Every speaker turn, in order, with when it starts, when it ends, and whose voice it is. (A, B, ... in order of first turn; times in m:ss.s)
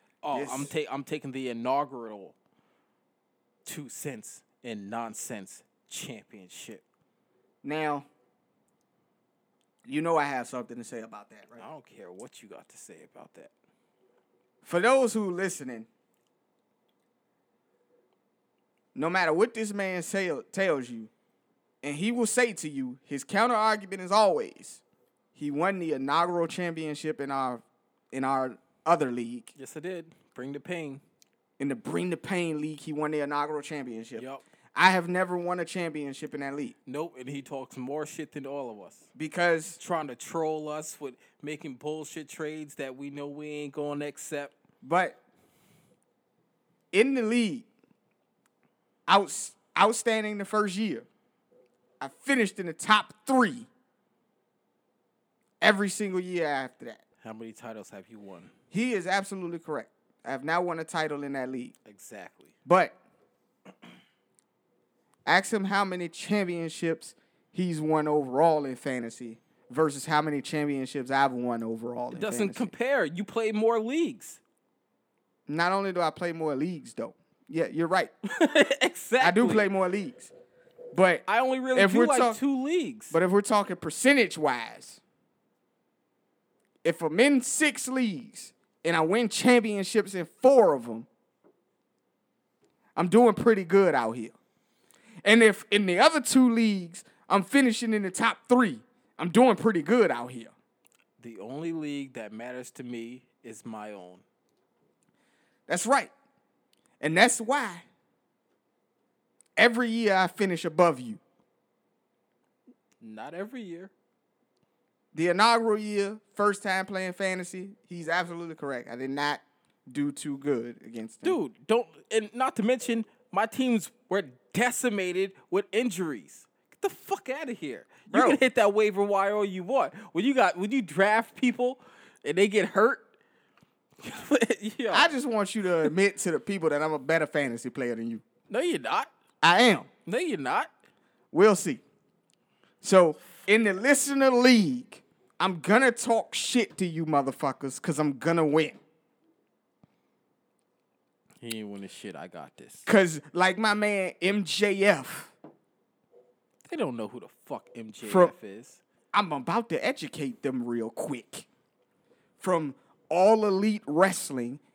0:00.2-0:02.4 A
0:00.3-0:00.7 B
0:03.6-0:06.8 A
0:07.6-0:08.1 B
0:09.9-0:11.7 B
0:11.6-0:13.5 A
0:14.6-0:15.9 B
0:19.0-0:21.1 B
0:21.8-0:24.8 B
0:25.4-0:29.5 B
0:29.6-0:31.0 A
0:31.6-0:36.8 B
0:34.2-0:34.4 A
0:36.9-0:39.1 A
0:39.2-0:39.8 B
0:39.8-0:44.5 A
0:44.8-0:45.2 B
0:46.9-0:47.7 B
0:49.1-0:51.1 B
0:52.0-0:53.7 B
0:55.6-0:57.0 B
0:57.2-0:58.5 A
0:58.7-1:01.7 B
1:01.8-1:02.5 A
1:02.6-1:03.0 B
1:05.3-1:12.7 B
1:12.1-1:14.4 A
1:15.5-1:18.1 B
1:18.2-1:19.7 A
1:19.2-1:20.3 B
1:20.9-1:22.4 B
1:21.3-1:23.2 A
1:23.1-1:25.0 B
1:26.8-1:31.1 B
1:33.0-1:34.4 B
1:35.2-1:40.5 B
1:41.2-1:44.2 A
1:45.7-1:46.1 B
1:47.0-1:47.8 B
1:49.6-1:51.2 B
1:53.0-1:53.9 A
1:55.1-2:01.4 B
2:01.2-2:13.0 A
2:08.1-2:08.4 B
2:14.0-2:15.1 A
2:14.9-2:18.2 B
2:18.5-2:19.1 A
2:19.4-2:19.9 B
2:20.1-2:20.7 A
2:21.3-2:21.8 B
2:22.8-2:28.8 B
2:31.4-2:32.9 A
2:32.9-2:35.3 B
2:36.6-2:38.8 A
2:38.0-2:38.3 B
2:39.1-2:41.5 B
2:42.4-2:44.6 B